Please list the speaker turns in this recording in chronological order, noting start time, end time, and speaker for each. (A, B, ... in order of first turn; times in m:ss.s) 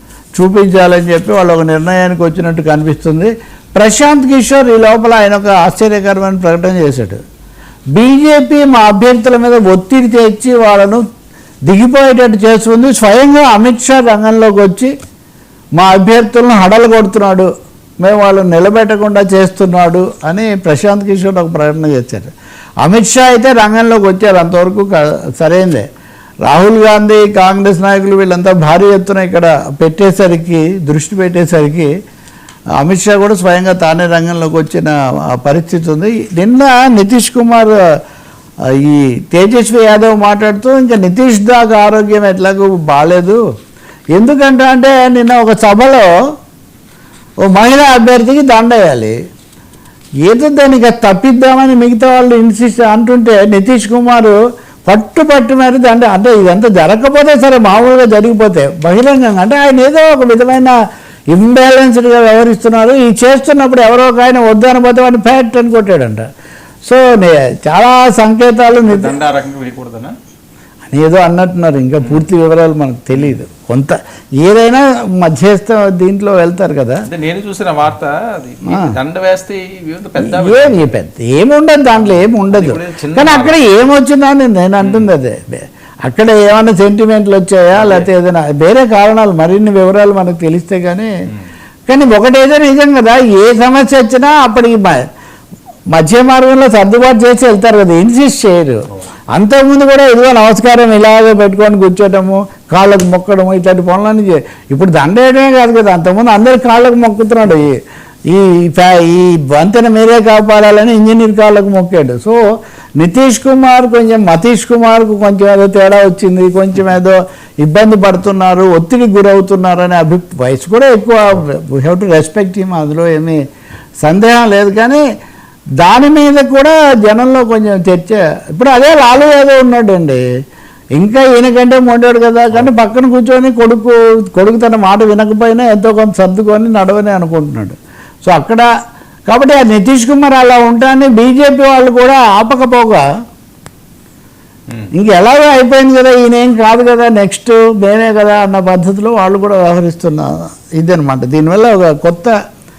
0:00.4-0:07.2 A
0:07.9-0:11.0 A
0:11.7-0:14.9 A
0:15.8-0:17.5 A
0:18.0-0:22.3 A
0:22.8-0:25.9 A
0:26.4-0:31.9 A
0:32.8-0:37.8 A
0:38.8-0:43.4 A
0:44.2-0:46.1 A
0:47.5-0:49.2 A
0:50.2-1:00.8 A
1:01.3-1:06.2 A
1:06.8-1:09.2 A
1:08.9-1:10.2 B
1:10.9-1:17.1 A
1:17.1-1:21.0 B
1:20.2-1:31.1 A
1:22.0-1:23.6 B
1:24.8-1:25.1 B
1:27.7-1:28.1 B
1:31.9-1:35.0 A
1:35.9-1:47.8 A
1:48.3-1:52.4 A
1:53.0-2:03.4 A
2:04.0-2:05.0 A
2:05.8-2:10.2 A
2:11.0-2:18.7 A
2:19.3-2:23.0 A
2:24.9-2:32.4 A